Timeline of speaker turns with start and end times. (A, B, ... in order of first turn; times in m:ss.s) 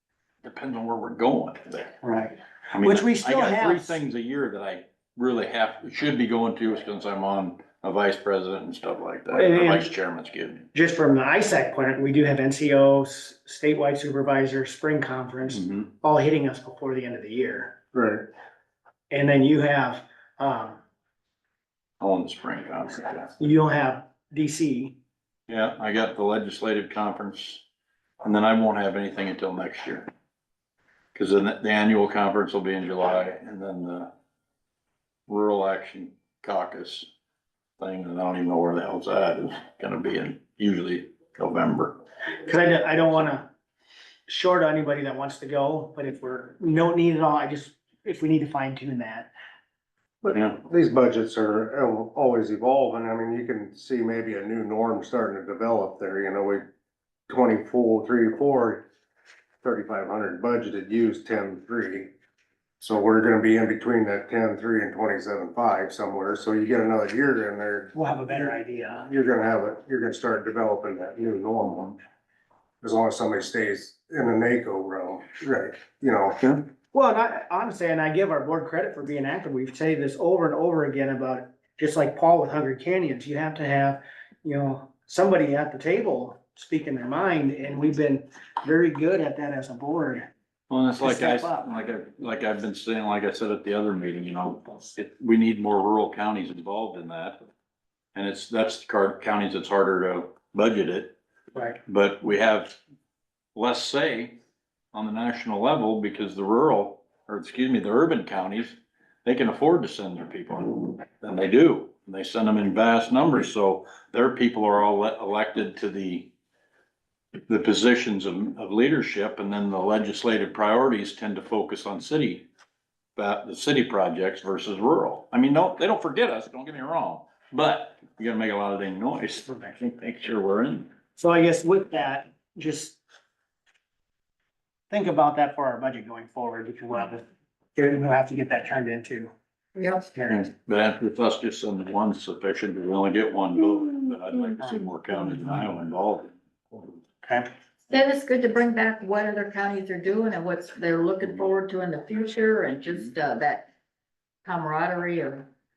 0:00.4-0:02.0 A
0:02.0-0:04.0 B
0:02.7-0:10.7 A
0:09.3-0:09.9 B
0:10.7-0:17.8 B
0:15.5-0:15.9 A
0:17.9-0:18.3 C
0:19.1-0:20.8 B
0:22.0-0:23.3 A
0:23.4-0:25.0 B
0:25.5-0:27.6 A
0:28.2-0:30.1 A
0:31.1-0:34.1 A
0:35.3-0:37.1 A
0:37.8-0:42.0 A
0:42.4-0:43.5 B
0:44.3-0:49.3 B
0:50.2-0:56.7 C
0:50.3-0:50.6 A
0:57.3-0:58.8 C
0:59.6-1:02.1 C
1:02.8-1:08.5 C
1:07.9-1:09.1 B
1:09.0-1:12.0 C
1:12.8-1:16.4 C
1:16.9-1:30.3 B
1:30.7-1:37.4 A
1:31.0-1:31.6 B
1:38.1-1:41.2 A
1:41.9-1:42.8 A
1:43.5-1:44.4 A
1:44.9-1:56.3 A
1:57.5-2:02.4 A
2:03.2-2:10.9 A
2:11.2-2:13.0 B
2:14.9-2:17.2 B
2:17.8-2:19.3 B
2:19.8-2:20.0 D
2:20.1-2:20.4 B
2:20.3-2:26.3 A
2:27.2-2:27.5 B
2:27.9-2:33.7 D
2:34.4-2:35.5 D